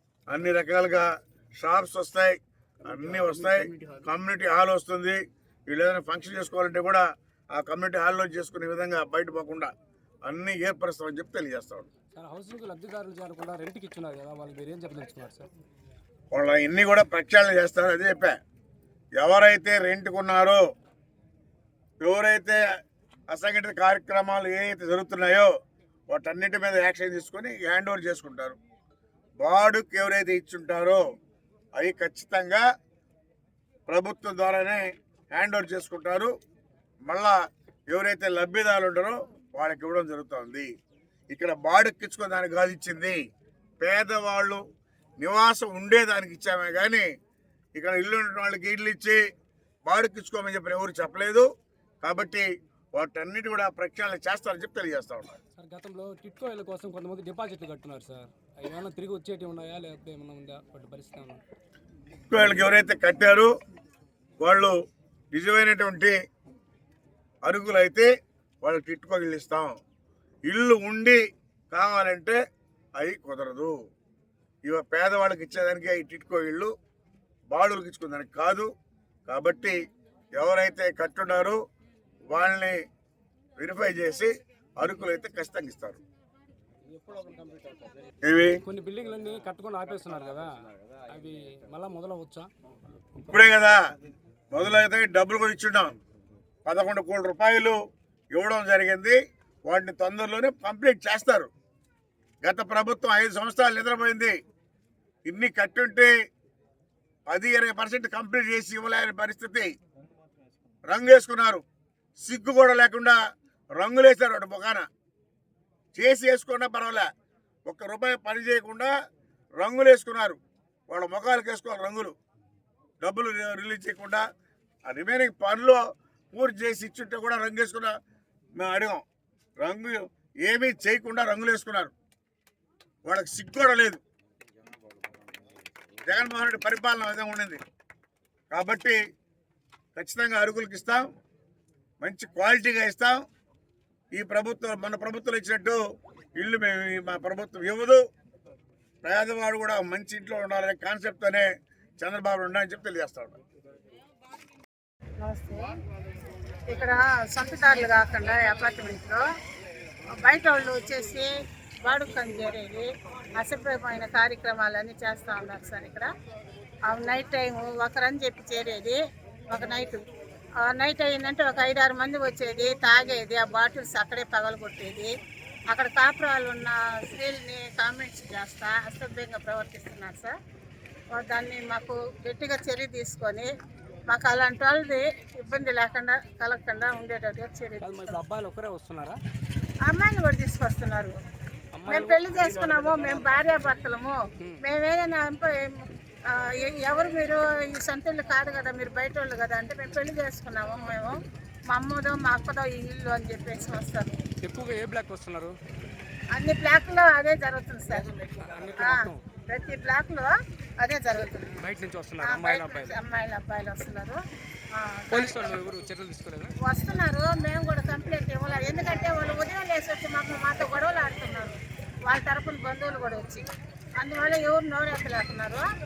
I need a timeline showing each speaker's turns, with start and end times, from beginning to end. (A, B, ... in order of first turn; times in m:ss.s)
0:00.3-0:09.7 A
0:10.2-0:11.9 A
0:12.1-0:15.5 B
0:16.3-0:18.4 A
0:19.2-0:20.6 A
0:22.0-0:22.6 A
0:23.3-0:25.5 A
0:26.1-0:28.6 A
0:29.4-0:31.0 A
0:31.8-0:32.6 A
0:33.9-0:36.3 A
0:37.0-0:37.4 A
0:37.9-0:40.7 A
0:41.3-0:43.2 A
0:43.8-0:44.6 A
0:45.2-0:47.1 A
0:47.7-0:49.2 A
0:49.8-0:51.5 A
0:52.0-0:55.4 A
0:55.6-1:01.4 B
1:02.3-1:03.5 A
1:04.4-1:04.7 A
1:05.3-1:06.1 A
1:07.4-1:08.1 A
1:08.6-1:09.8 A
1:10.4-1:12.4 A
1:13.0-1:13.7 A
1:14.6-1:16.7 A
1:17.5-1:18.7 A
1:19.3-1:19.8 A
1:20.3-1:21.6 A
1:22.3-1:22.8 A
1:23.6-1:26.0 A
1:28.2-1:28.6 A
1:28.6-1:30.5 B
1:31.1-1:32.5 B
1:33.3-1:33.8 A
1:34.5-1:35.9 A
1:36.6-1:37.8 A
1:38.3-1:41.5 A
1:42.4-1:44.3 A
1:45.2-1:46.1 A
1:47.3-1:49.7 A
1:50.8-1:51.6 A
1:52.2-1:53.2 A
1:53.7-1:54.8 A
1:55.9-1:57.1 A
1:57.6-1:58.9 A
1:59.6-2:02.1 A
2:03.0-2:04.2 A
2:04.8-2:07.9 A
2:08.6-2:09.0 A
2:09.6-2:11.9 A
2:13.0-2:14.0 A
2:16.0-2:17.6 A
2:18.5-2:19.0 A
2:19.9-2:21.1 A
2:22.0-2:23.2 A
2:24.1-2:25.8 A
2:26.4-2:28.0 A
2:29.0-2:31.5 A
2:32.0-2:33.4 A
2:35.2-2:35.7 C
2:36.7-2:39.2 C
2:40.1-2:41.3 C
2:41.8-2:46.1 C
2:46.9-2:50.0 C
2:50.6-2:55.1 C
2:55.7-3:00.3 C
3:01.1-3:03.5 C
3:04.1-3:08.2 C
3:07.8-3:09.2 B
3:09.9-3:11.2 C
3:11.7-3:13.4 B
3:11.8-3:21.2 C
3:21.7-3:24.1 C
3:24.4-3:25.5 B
3:26.3-3:28.1 C
3:28.2-3:29.2 B
3:28.8-3:31.5 C
3:31.6-3:33.0 B
3:32.2-3:34.2 C
3:34.8-3:35.7 C
3:35.1-3:36.5 B
3:36.6-3:43.5 C
3:44.0-3:45.6 C